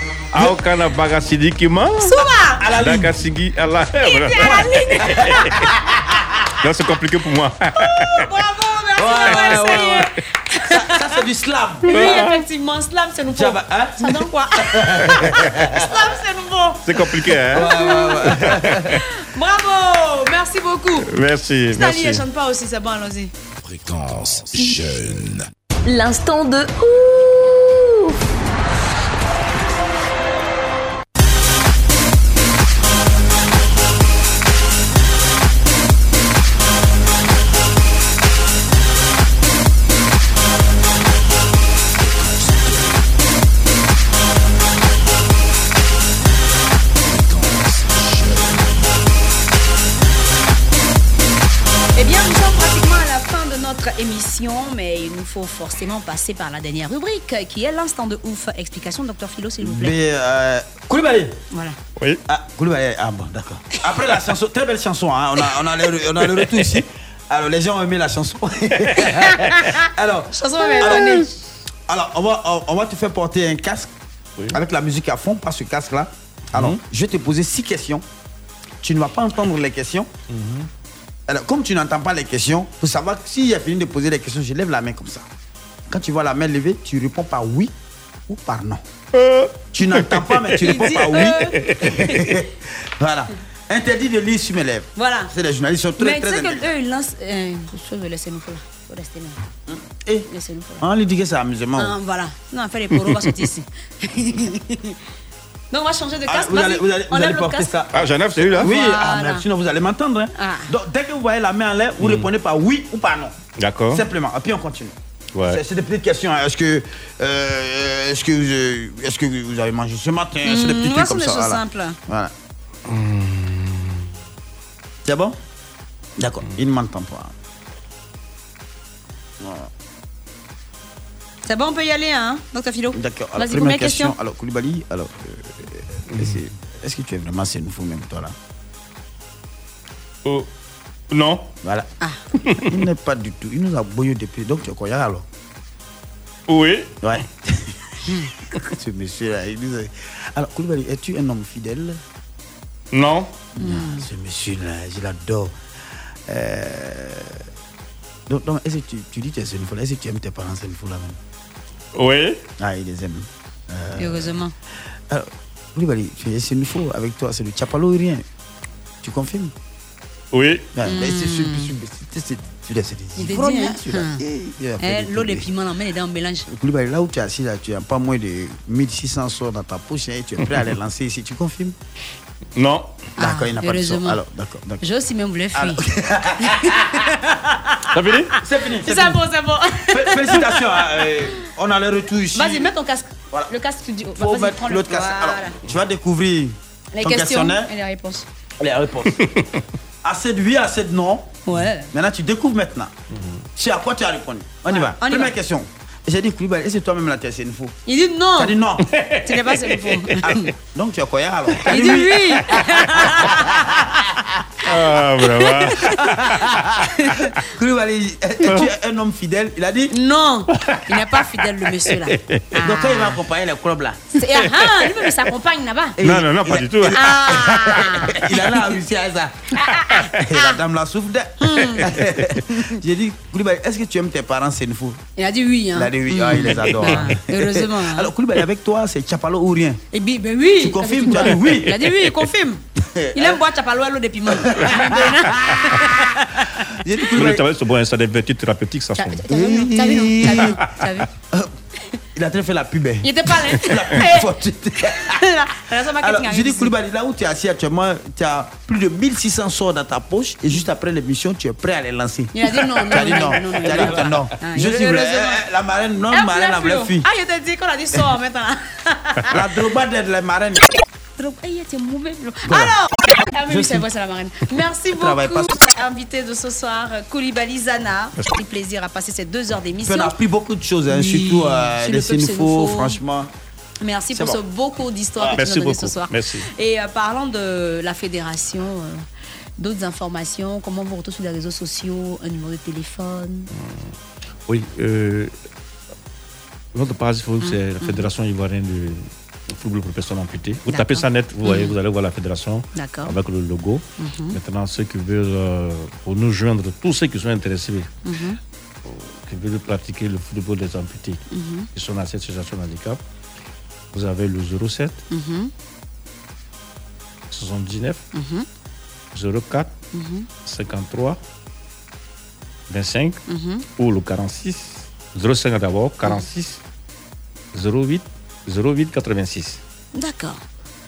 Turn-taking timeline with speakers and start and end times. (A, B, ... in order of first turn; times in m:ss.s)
0:00.3-0:05.4 A
0:02.0-0:02.7 B
0:02.6-0:03.1 C
0:04.0-0:05.7 B
0:04.4-0:06.5 C
0:06.6-0:08.3 A
0:07.8-0:11.2 B
0:09.0-0:10.1 C
0:10.7-0:12.1 C
0:11.9-0:21.1 B
0:11.9-0:12.4 A
0:13.3-0:16.0 C
0:16.8-0:18.8 A
0:17.5-0:19.0 C
0:21.0-0:22.2 A
0:21.7-0:23.3 B
0:23.6-0:25.5 D
0:25.8-0:28.1 E
0:42.0-0:43.1 D
0:47.0-0:49.0 D
0:51.9-1:00.0 B
0:59.6-1:01.4 C
1:01.5-1:01.8 B
1:02.3-1:11.2 C
1:09.0-1:11.2 B
1:10.9-1:11.3 A
1:11.9-1:13.9 C
1:14.5-1:18.0 C
1:16.5-1:16.8 A
1:18.8-1:20.1 C
1:20.3-1:20.7 A
1:21.3-1:25.2 C
1:25.9-1:27.7 C
1:28.3-1:28.8 C
1:29.1-1:30.1 A
1:29.7-1:36.6 C
1:30.6-1:32.3 B
1:30.7-1:32.0 A
1:35.0-1:35.3 B
1:36.0-1:39.4 B
1:39.7-1:40.3 C
1:40.3-1:40.8 B
1:40.8-1:42.0 C
1:41.8-1:45.0 B
1:43.1-1:43.4 A
1:45.7-1:47.7 B
1:46.3-1:53.4 C
1:47.9-1:48.7 A
1:48.5-1:49.4 B
1:50.4-1:50.7 B
1:52.0-1:52.3 A
1:53.6-1:54.0 A
1:53.9-1:54.9 C
1:55.3-1:55.6 A
1:55.5-2:02.3 C
2:00.4-2:02.0 B
2:02.8-2:04.1 A
2:05.0-2:05.4 C
2:06.2-2:07.3 C
2:09.4-2:09.7 C
2:11.5-2:14.1 B
2:12.9-2:18.3 C
2:16.1-2:16.4 A
2:21.1-2:21.5 A
2:22.7-2:25.2 C
2:26.5-2:27.0 A
2:27.0-2:27.8 C
2:28.6-2:32.0 C
2:32.9-2:33.3 A
2:33.6-2:35.5 C
2:33.6-2:34.0 B
2:36.3-2:37.4 C
2:38.3-2:41.2 C
2:42.0-2:42.4 A
2:42.6-2:44.4 C
2:44.0-2:44.5 B
2:45.1-2:48.2 C
2:49.0-2:49.5 C
2:50.3-2:50.7 A
2:50.8-2:55.4 C
2:50.8-2:51.7 B
2:53.2-2:54.2 B
2:54.8-2:56.4 B
2:56.5-3:01.8 C
3:02.6-3:03.1 A
3:03.2-3:04.2 B
3:03.2-3:04.8 C
3:04.8-3:05.8 B
3:05.5-3:07.0 C
3:06.4-3:07.9 B
3:07.9-3:08.4 A
3:08.4-3:09.2 C
3:08.8-3:10.8 B
3:09.9-3:12.7 C
3:12.3-3:15.6 B
3:14.2-3:17.7 C
3:17.0-3:18.2 B
3:18.6-3:19.2 C
3:19.2-3:19.4 A
3:20.0-3:21.4 C
3:21.5-3:21.9 B
3:21.9-3:22.9 C
3:23.1-3:23.4 A
3:23.6-3:27.8 C
3:24.7-3:25.3 B
3:27.9-3:28.6 B
3:28.4-3:28.8 C
3:28.8-3:30.2 A
3:29.2-3:30.5 B
3:30.2-3:34.2 C
3:31.7-3:33.9 B
3:34.6-3:35.9 A
3:35.2-3:36.0 B
3:35.9-3:36.8 C
3:37.0-3:37.3 B
3:37.4-3:39.9 C
3:38.4-3:38.7 A
3:39.9-3:43.2 B
3:40.6-3:40.9 A
3:42.0-3:42.4 A
3:42.6-3:44.1 C
3:44.2-3:46.0 B
3:46.0-3:49.5 C
3:46.0-3:47.0 A
3:46.9-3:48.3 B
3:49.5-3:50.6 B
3:50.2-3:55.0 C
3:51.4-3:52.0 B
3:55.2-3:58.1 B
3:55.7-3:59.8 C
3:56.8-3:57.1 A
3:59.9-4:02.6 B
4:00.6-4:01.8 C
4:02.8-4:03.4 C
4:03.1-4:06.7 B
4:04.5-4:05.7 C
4:06.8-4:07.4 C
4:07.1-4:09.4 A
4:09.0-4:11.1 B
4:09.3-4:10.5 C
4:10.2-4:10.7 A
4:12.1-4:15.2 C
4:13.0-4:14.3 B
4:15.0-4:16.7 B
4:16.0-4:27.0 C
4:22.3-4:25.4 B
4:26.1-4:29.4 B
4:29.3-4:30.7 C
4:31.2-4:40.1 B
4:32.5-4:32.8 C
4:33.5-4:33.8 C
4:34.9-4:35.6 C
4:39.8-4:43.3 C
4:40.9-4:43.0 B
4:43.8-4:49.0 B
4:44.1-4:44.4 C
4:45.3-4:46.5 A
4:49.6-4:53.5 B
4:53.5-4:53.9 A
4:54.4-4:55.3 A
4:56.7-5:07.9 A
4:57.4-4:58.1 B
5:00.7-5:01.7 B
5:02.7-5:03.2 B
5:04.0-5:04.4 B
5:08.0-5:08.4 B
5:08.8-5:11.2 A
5:11.3-5:11.7 B
5:11.7-5:13.0 A
5:13.9-5:15.0 A
5:15.1-5:15.5 B
5:17.3-5:18.0 A
5:18.1-5:18.4 B
5:19.1-5:19.7 A
5:19.9-5:20.3 B
5:20.4-5:21.2 A
5:22.7-5:23.2 A
5:23.3-5:23.6 B
5:23.8-5:26.6 A
5:27.5-5:29.6 A
5:29.9-5:30.4 B